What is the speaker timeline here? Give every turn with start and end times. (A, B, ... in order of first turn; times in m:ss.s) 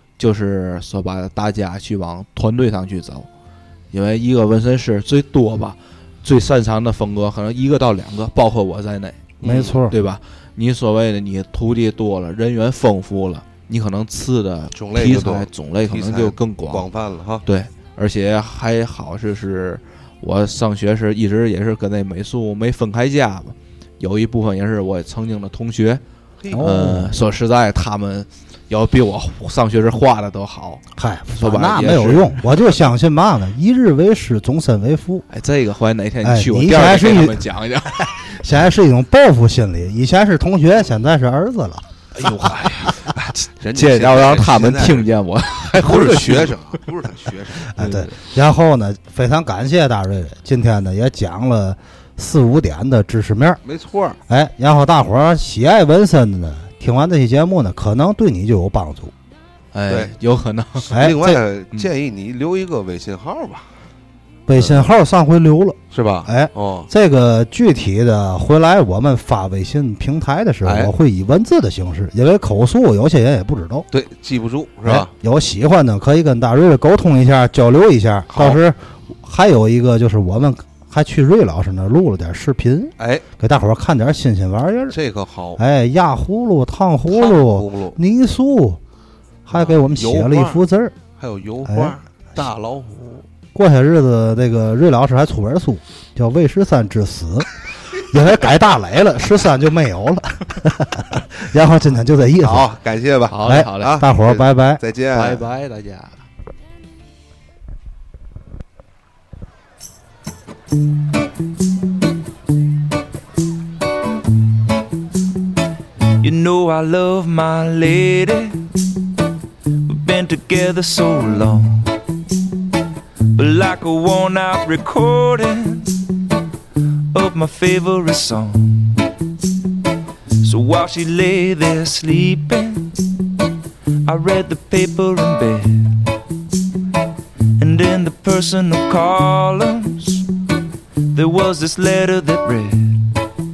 0:00.2-0:03.3 A
0:03.9-0:09.2 A
0:09.4-0:09.8 B
0:09.4-0:09.9 C
0:09.9-0:16.8 A
0:14.8-0:17.4 B
0:17.4-0:26.0 A
0:26.5-0:27.1 C
0:26.6-0:30.8 A
0:31.0-0:35.2 C
0:31.4-0:32.4 A
0:35.3-0:38.1 A
0:36.2-0:37.4 C
0:38.0-0:41.8 C
0:42.2-0:46.8 A
0:43.2-0:45.1 B
0:45.8-0:47.8 B
0:47.8-0:53.6 C
0:47.8-0:48.1 A
0:53.6-0:54.2 B
0:54.3-0:59.1 C
0:59.7-1:01.0 A
1:00.9-1:03.6 B
1:00.9-1:01.4 C
1:04.5-1:13.8 C
1:04.6-1:04.9 B
1:05.9-1:06.9 B
1:10.6-1:10.9 B
1:13.9-1:15.1 B
1:14.8-1:25.0 C
1:18.3-1:18.6 B
1:23.0-1:23.2 B
1:24.9-1:25.6 B
1:25.6-1:28.8 C
1:27.1-1:28.0 B
1:29.4-1:30.9 C
1:29.5-1:30.6 B
1:31.2-1:33.2 B
1:31.6-1:31.9 C
1:33.5-1:37.5 C
1:38.0-1:42.7 C
1:42.4-1:45.4 B
1:43.3-1:44.0 A
1:43.4-1:44.8 C
1:45.1-1:46.2 A
1:56.2-1:58.7 D
1:59.8-2:01.9 D
2:03.3-2:06.0 D
2:07.1-2:09.0 D
2:10.4-2:13.0 D
2:14.0-2:16.1 D
2:17.6-2:20.2 D
2:21.1-2:23.2 D